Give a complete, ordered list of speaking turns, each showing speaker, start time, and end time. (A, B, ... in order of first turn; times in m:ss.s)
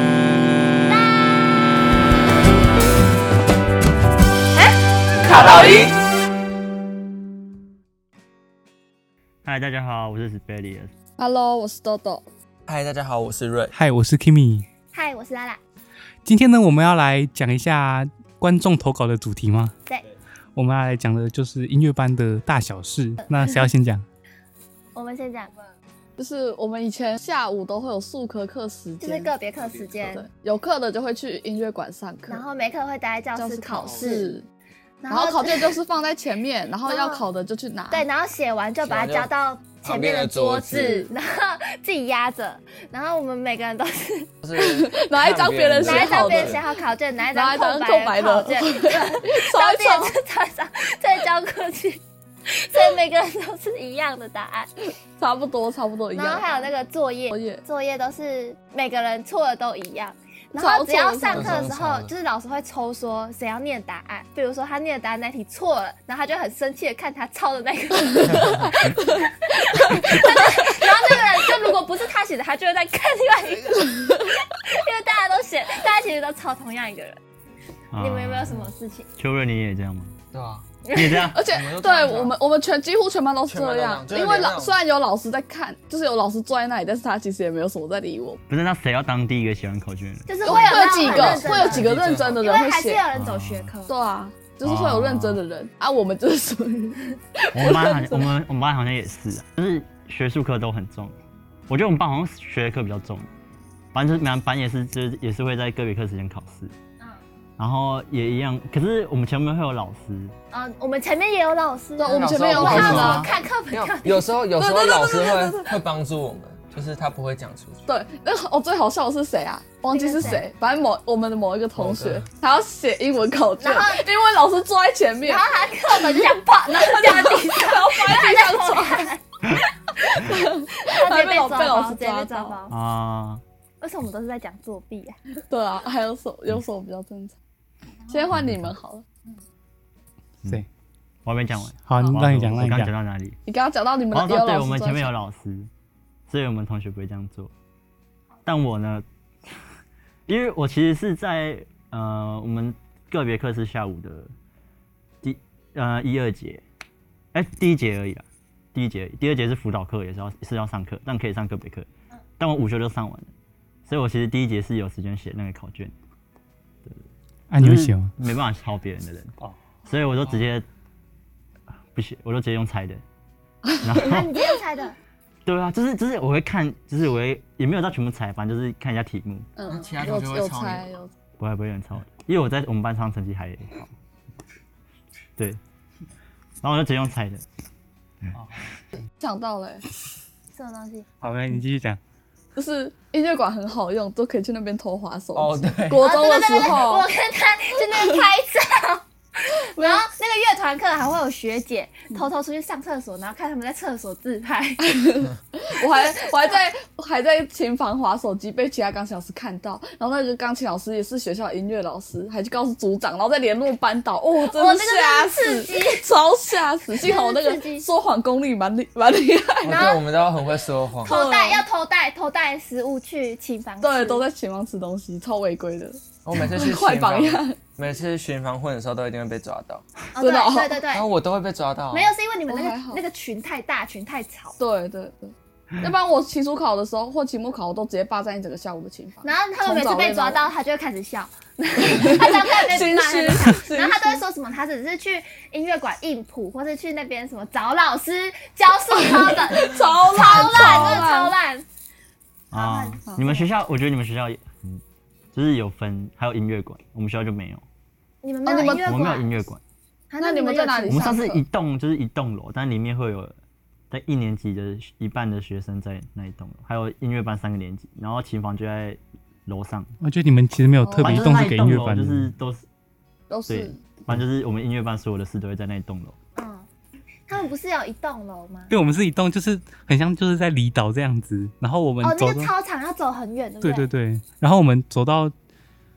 0:00.9-0:01.6 A
0:05.3-0:05.9 B
0:09.4-0:10.9 C
0:11.2-0:12.2 B
0:12.6-0:13.7 D
0:13.7-0:14.7 E
0:14.9-0:15.6 A
0:16.2-0:19.7 E
0:20.5-0:24.0 E
0:23.2-0:23.7 A
0:24.9-0:25.5 A
0:26.2-0:29.3 B
0:29.0-0:30.3 A
0:30.0-0:32.4 B
0:32.3-0:34.3 A
0:33.4-0:34.4 B
0:35.0-0:35.8 A
0:35.1-0:38.0 B
0:36.8-0:37.2 A
0:37.9-0:44.3 A
0:38.8-0:40.9 D
0:40.7-0:41.1 B
0:44.4-0:46.6 D
0:44.6-0:46.7 B
0:45.8-0:54.8 A
0:47.3-0:50.1 B
0:55.2-0:56.7 B
0:56.1-1:17.2 A
0:57.3-0:57.6 B
1:00.6-1:01.5 B
1:01.3-1:02.1 D
1:08.3-1:09.0 B
1:17.9-1:18.6 C
1:18.0-1:19.1 A
1:19.2-1:20.1 C
1:20.3-1:20.6 D
1:20.8-1:21.3 A
1:20.9-1:21.4 C
1:21.3-1:28.4 B
1:21.4-1:22.4 D
1:23.5-1:24.8 D
1:28.5-1:30.8 C
1:30.3-1:33.9 A
1:30.4-1:33.0 B
1:31.0-1:32.4 D
1:33.1-1:33.7 C
1:33.9-1:38.3 B
1:34.6-1:35.4 C
1:37.5-1:41.2 C
1:41.7-1:43.3 C
1:43.9-1:46.7 C
1:47.6-1:50.3 C
1:50.5-1:54.3 A
1:52.0-1:53.3 B
1:52.1-1:57.8 D
1:52.6-1:53.3 C
1:54.6-1:55.7 B
1:57.9-2:09.1 B
1:59.9-2:00.4 A
2:01.7-2:02.2 D
2:03.6-2:04.0 A
2:05.2-2:10.2 A
2:10.2-2:12.6 B
2:10.8-2:12.7 A
2:12.7-2:13.4 C
2:13.8-2:15.4 A
2:15.5-2:17.4 B
2:18.1-2:19.0 B
2:21.2-2:23.4 C
2:21.8-2:22.9 E
2:23.5-2:25.1 B
2:24.1-2:25.7 C
2:26.3-2:27.5 C
2:28.4-2:29.0 C
2:30.3-2:34.3 C
2:35.2-2:36.6 C
2:37.3-2:41.9 C
2:42.4-2:43.3 C
2:43.9-2:45.9 C
2:47.5-2:48.1 E
2:47.6-2:49.3 C
2:49.8-2:50.6 C
2:51.9-2:53.0 C
2:53.6-2:54.0 B
2:53.8-2:54.3 C
2:54.0-2:55.0 A
2:55.4-2:59.5 C
2:59.6-3:01.1 B
2:59.7-3:00.8 D
3:01.4-3:03.9 C
3:06.6-3:07.4 C
3:09.2-3:09.8 B
3:10.5-3:11.0 A
3:11.2-3:12.0 E
3:12.5-3:17.1 B
3:15.3-3:16.0 D
3:16.0-3:24.8 A
3:19.8-3:20.0 B
3:24.8-3:39.9 B
3:25.9-3:26.5 A
3:34.4-3:36.1 A
3:37.0-3:37.9 A
3:39.6-3:41.2 D
3:39.6-3:40.0 A
3:41.0-3:44.2 A
3:41.0-3:41.6 B
3:43.8-3:47.6 B
3:46.2-3:49.8 D
3:50.1-3:51.1 A
3:50.2-3:50.8 B
3:50.9-3:52.1 D
3:51.9-3:54.6 A
3:52.5-3:53.0 B
3:54.6-4:00.5 B
3:59.2-4:11.6 A
4:01.9-4:04.2 B
4:09.5-4:11.3 B
4:10.2-4:11.0 C
4:12.5-4:14.8 C
4:12.5-4:13.5 A
4:15.3-4:17.6 C
4:18.2-4:19.3 A
4:18.4-4:18.9 B
4:18.6-4:19.6 C
4:20.1-4:21.2 A
4:20.2-4:21.4 B
4:20.9-4:23.4 C
4:23.9-4:29.9 C
4:30.0-4:32.3 E
4:30.8-4:31.2 B
4:31.0-4:32.6 C
4:33.3-4:33.8 B
4:33.5-4:36.2 C
4:36.4-4:36.6 A
4:37.3-4:38.7 A
4:38.7-4:42.5 E
4:42.0-4:43.9 A
4:43.6-4:45.3 E